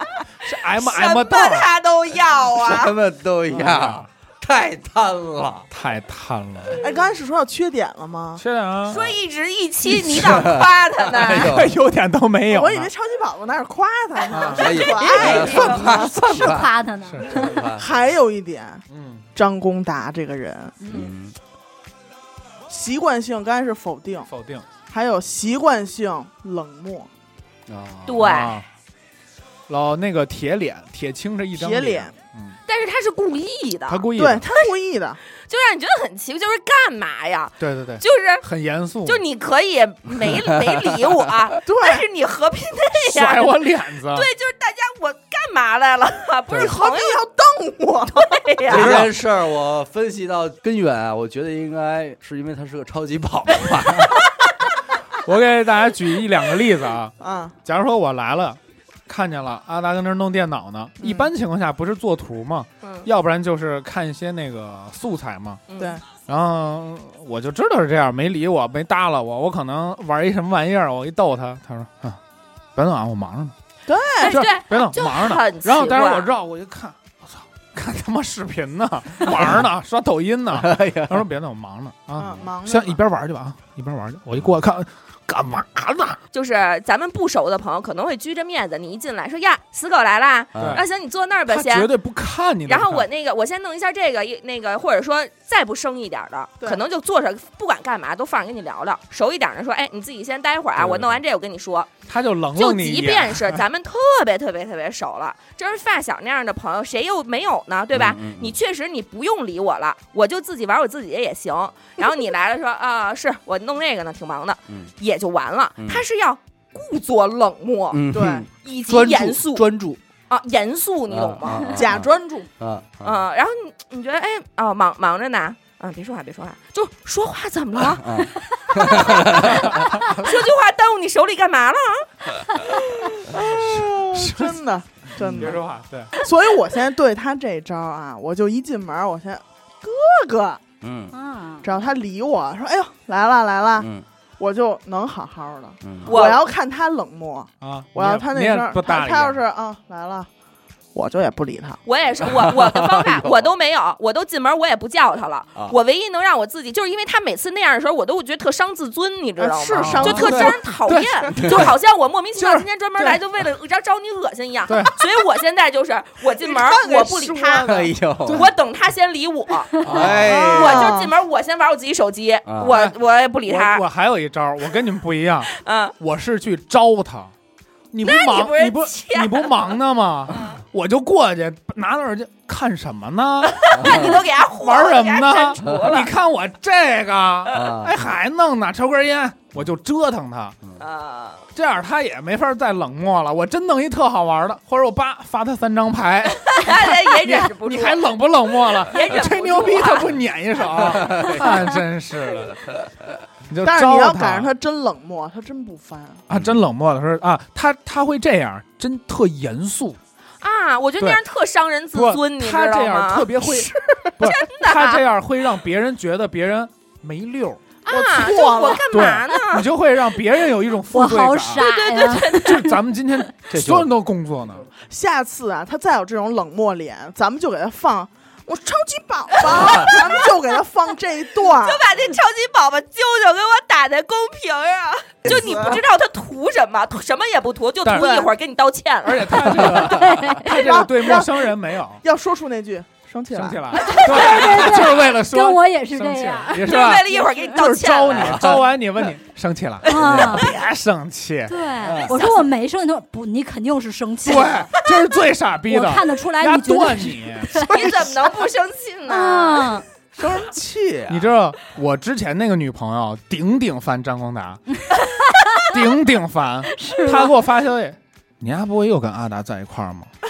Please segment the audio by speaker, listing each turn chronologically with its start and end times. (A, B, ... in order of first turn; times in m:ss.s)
0:00.4-0:01.7 A
0:00.8-0:02.9 B
0:02.6-0:05.7 C
0:03.5-0:04.1 A
0:05.7-0:06.8 A
0:06.8-0:08.4 D
0:08.4-0:09.1 A
0:08.9-0:11.6 B
0:10.0-0:10.5 A
0:10.1-0:11.8 C
0:11.2-0:12.9 A
0:12.5-0:16.1 D
0:14.3-0:14.7 A
0:14.6-0:16.7 C
0:14.6-0:15.8 B
0:15.2-0:17.6 E
0:17.1-0:17.4 A
0:17.3-0:17.9 C
0:17.7-0:18.8 D
0:18.9-0:19.3 A
0:19.4-0:20.8 D
0:20.9-0:21.4 C
0:22.7-0:24.3 D
0:24.3-0:24.6 A
0:24.9-0:27.1 D
0:27.7-0:28.4 C
0:28.1-0:28.6 B
0:28.2-0:28.6 A
0:29.7-0:32.6 A
0:31.5-0:32.1 D
0:32.7-0:34.7 B
0:33.9-0:34.5 A
0:34.2-0:35.2 D
0:35.5-0:38.4 B
0:37.6-0:39.2 A
0:39.0-0:47.2 B
0:40.3-0:41.3 C
0:41.7-0:42.1 D
0:43.0-0:44.3 A
0:46.5-0:48.4 D
0:48.2-0:49.1 B
0:48.7-0:54.2 C
0:48.7-0:49.1 A
0:55.2-1:05.6 A
0:57.2-0:57.6 D
1:01.0-1:01.3 D
1:02.8-1:03.1 B
1:05.7-1:06.0 B
1:05.8-1:06.0 D
1:06.2-1:12.2 A
1:12.8-1:13.5 A
1:13.9-1:14.4 D
1:14.2-1:16.3 B
1:14.2-1:26.2 A
1:20.5-1:21.2 C
1:22.2-1:23.0 D
1:26.3-1:31.9 B
1:30.6-1:30.8 C
1:30.6-1:30.8 A
1:31.5-1:33.1 A
1:32.7-1:41.9 B
1:40.8-1:41.2 C
1:42.1-1:43.6 A
1:42.6-1:59.7 B
1:47.9-1:48.6 C
1:55.8-1:56.0 C
1:57.9-2:00.0 C
1:58.1-1:58.5 D
2:00.3-2:01.8 B
2:01.1-2:03.2 C
2:01.6-2:02.5 D
2:03.0-2:12.9 B
2:08.0-2:10.0 C
2:09.6-2:10.4 A
2:13.3-2:15.6 D
2:13.3-2:14.6 A
2:15.2-2:16.1 A
2:16.2-2:20.6 D
2:20.8-2:21.1 C
2:21.1-2:21.7 E
2:21.6-2:23.9 D
2:23.8-2:24.0 C
2:24.4-2:30.3 D
2:25.8-2:26.2 C
2:26.1-2:26.5 B
2:27.6-2:29.4 A
2:30.9-2:31.8 D
2:31.8-2:53.8 B
2:32.2-2:33.5 C
2:39.4-2:40.7 D
2:39.7-2:41.7 A
2:41.4-2:41.7 C
2:42.4-2:43.2 A
2:44.7-2:45.0 A
2:46.4-2:47.9 D
2:47.6-2:48.5 C
2:49.8-2:50.9 C
2:49.9-2:50.2 A
2:50.2-2:51.1 D
2:52.5-2:52.8 C
2:52.7-2:57.3 A
2:55.5-2:55.9 B
2:57.9-3:10.6 A
2:58.0-2:59.7 B
3:00.3-3:00.6 B
3:03.5-3:06.1 B
3:03.8-3:04.2 C
3:07.5-3:08.0 C
3:10.8-3:11.4 B
3:11.6-3:22.6 A
3:16.4-3:20.2 B
3:20.9-3:21.7 C
3:20.9-3:21.2 B
3:22.4-3:22.9 C
3:23.5-3:24.5 A
3:23.6-3:26.2 D
3:26.3-3:30.0 A
3:30.4-3:33.4 B
3:31.9-3:37.6 A
3:33.5-3:34.1 D
3:34.2-3:35.0 B
3:37.8-3:39.7 B
3:37.9-3:38.9 D
3:38.9-3:41.7 A
3:40.9-3:42.8 E
3:41.6-3:42.6 B
3:42.3-3:44.7 A
3:43.5-3:43.9 C
3:44.9-3:51.8 D
3:49.4-3:50.3 B
3:51.4-3:59.8 B
3:55.3-3:55.8 D
3:57.8-3:58.3 A
3:59.0-4:02.0 A
3:59.6-4:00.2 C
3:59.9-4:00.4 E
4:00.5-4:01.5 D
4:02.0-4:03.9 D
4:03.3-4:11.6 A
4:03.9-4:07.2 E
4:06.6-4:08.5 B
4:08.2-4:08.6 C
4:09.8-4:10.5 E
4:10.0-4:10.4 C
4:11.5-4:14.8 E
4:11.8-4:12.2 C
4:12.1-4:12.4 B
4:14.2-4:17.7 A
4:15.7-4:17.7 E
4:17.5-4:19.8 B
4:17.7-4:18.3 D
4:19.1-4:19.8 E
4:20.2-4:21.3 C
4:21.1-4:24.6 A
4:24.8-4:25.7 E
4:25.7-4:30.1 A
4:26.7-4:27.4 E